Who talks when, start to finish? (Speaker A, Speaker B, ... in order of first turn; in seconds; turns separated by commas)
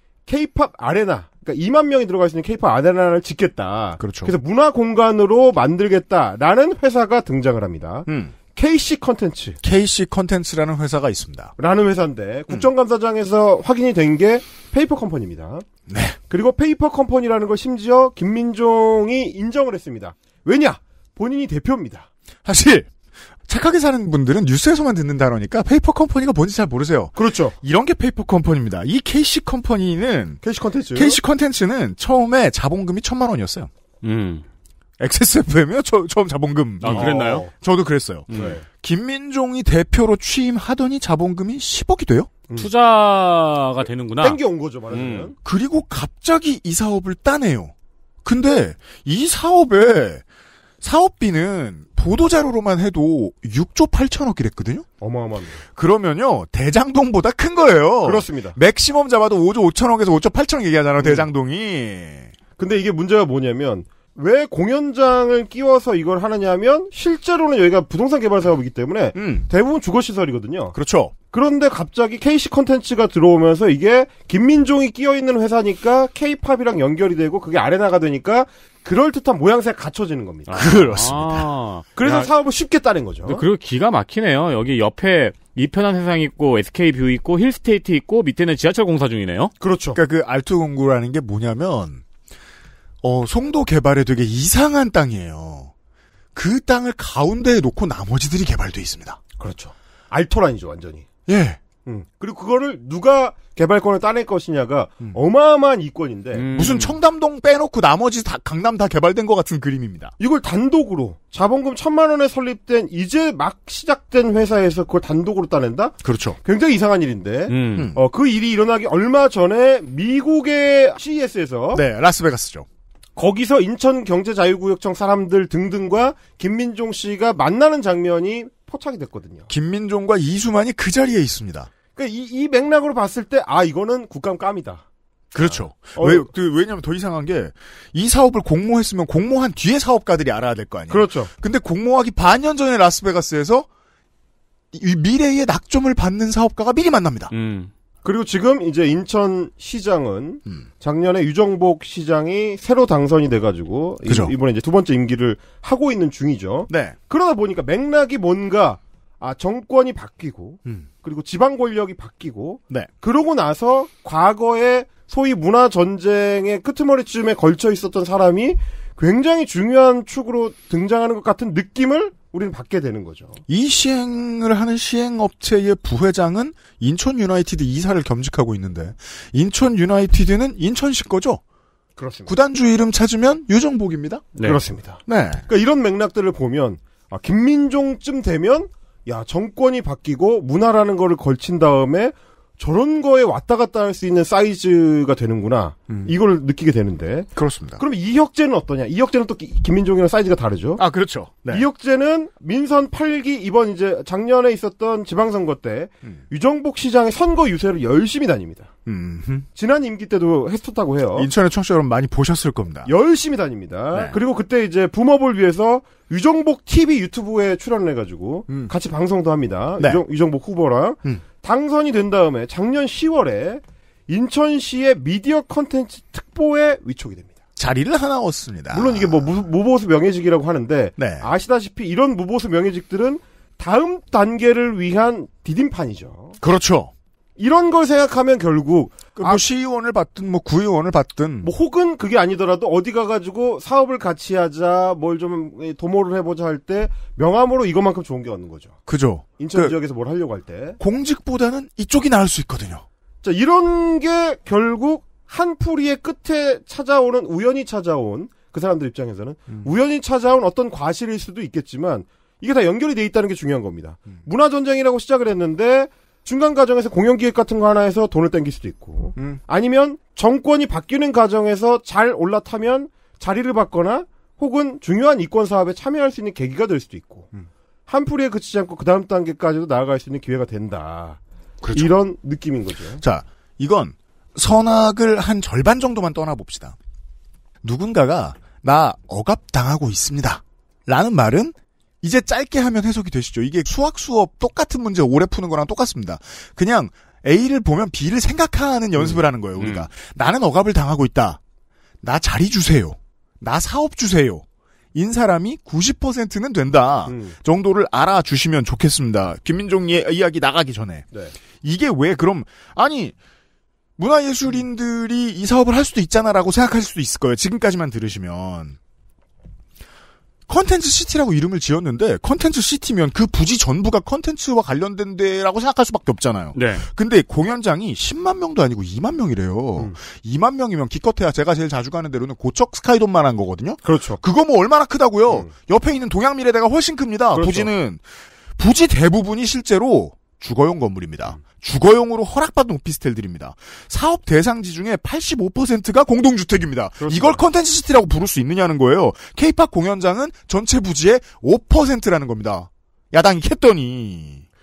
Speaker A: 0.3-9.6, Speaker B: 4.0-4.3, Speaker B: 8.1-8.3, Speaker B: 9.6-11.6, Speaker A: 11.6-15.7, Speaker B: 15.9-16.2, Speaker A: 16.3-22.1, Speaker B: 22.4-22.9, Speaker B: 23.5-30.4, Speaker A: 27.1-27.6, Speaker A: 30.4-31.2, Speaker B: 30.9-33.7, Speaker C: 34.0-34.5, Speaker B: 35.0-42.3, Speaker C: 36.8-37.5, Speaker A: 36.8-37.5, Speaker C: 38.3-38.6, Speaker A: 38.3-38.6, Speaker C: 42.6-44.4, Speaker A: 44.2-45.4, Speaker C: 44.9-45.3, Speaker B: 45.4-47.7, Speaker B: 48.2-50.2, Speaker B: 50.8-54.9, Speaker A: 55.0-55.6, Speaker B: 55.8-62.3, Speaker A: 58.0-58.6, Speaker A: 61.0-61.3, Speaker A: 62.6-70.8, Speaker B: 69.2-69.5, Speaker B: 70.7-71.1, Speaker A: 71.3-80.9, Speaker C: 80.5-82.3, Speaker B: 80.5-81.5, Speaker A: 82.0-83.4, Speaker C: 83.3-89.5, Speaker A: 89.6-90.0, Speaker B: 89.9-92.0, Speaker B: 93.0-95.7, Speaker B: 96.3-99.2, Speaker A: 99.4-101.1, Speaker B: 101.3-101.6, Speaker A: 101.8-106.5, Speaker C: 106.3-107.0, Speaker B: 106.5-110.2, Speaker A: 110.2-121.8, Speaker B: 116.0-116.4, Speaker C: 117.5-117.9, Speaker B: 117.7-118.0, Speaker B: 121.7-122.7, Speaker A: 123.2-129.5, Speaker B: 129.5-131.7, Speaker A: 131.9-134.8, Speaker B: 135.3-143.7, Speaker A: 135.4-136.3, Speaker A: 140.9-141.3, Speaker B: 144.7-147.3, Speaker C: 147.3-147.7, Speaker A: 148.0-173.4, Speaker B: 154.1-154.3, Speaker B: 156.7-157.0, Speaker B: 173.5-181.4, Speaker A: 182.0-182.3, Speaker B: 182.3-184.3, Speaker C: 184.3-184.6, Speaker A: 184.4-200.8, Speaker B: 185.1-185.4, Speaker B: 197.4-197.8, Speaker B: 200.8-201.7, Speaker A: 201.5-208.7, Speaker B: 208.9-209.5, Speaker A: 209.6-211.3, Speaker B: 211.2-212.9, Speaker A: 212.9-227.3, Speaker B: 227.6-229.3, Speaker A: 228.7-236.4, Speaker B: 231.0-231.3, Speaker B: 236.4-236.9, Speaker A: 237.4-239.4, Speaker B: 239.2-241.5, Speaker A: 241.4-248.8, Speaker B: 248.9-249.8, Speaker A: 249.4-250.8, Speaker B: 250.8-252.8, Speaker A: 253.2-277.3, Speaker A: 277.9-281.2, Speaker B: 281.6-281.9, Speaker A: 281.7-283.0, Speaker B: 283.0-286.8, Speaker B: 287.6-301.4, Speaker C: 299.6-299.9, Speaker B: 302.0-311.1, Speaker A: 307.1-307.4, Speaker B: 311.6-313.2, Speaker B: 314.0-318.8, Speaker B: 320.5-338.0, Speaker C: 326.6-326.9, Speaker A: 333.9-334.2, Speaker A: 337.3-337.7, Speaker B: 338.6-354.4, Speaker A: 347.0-347.4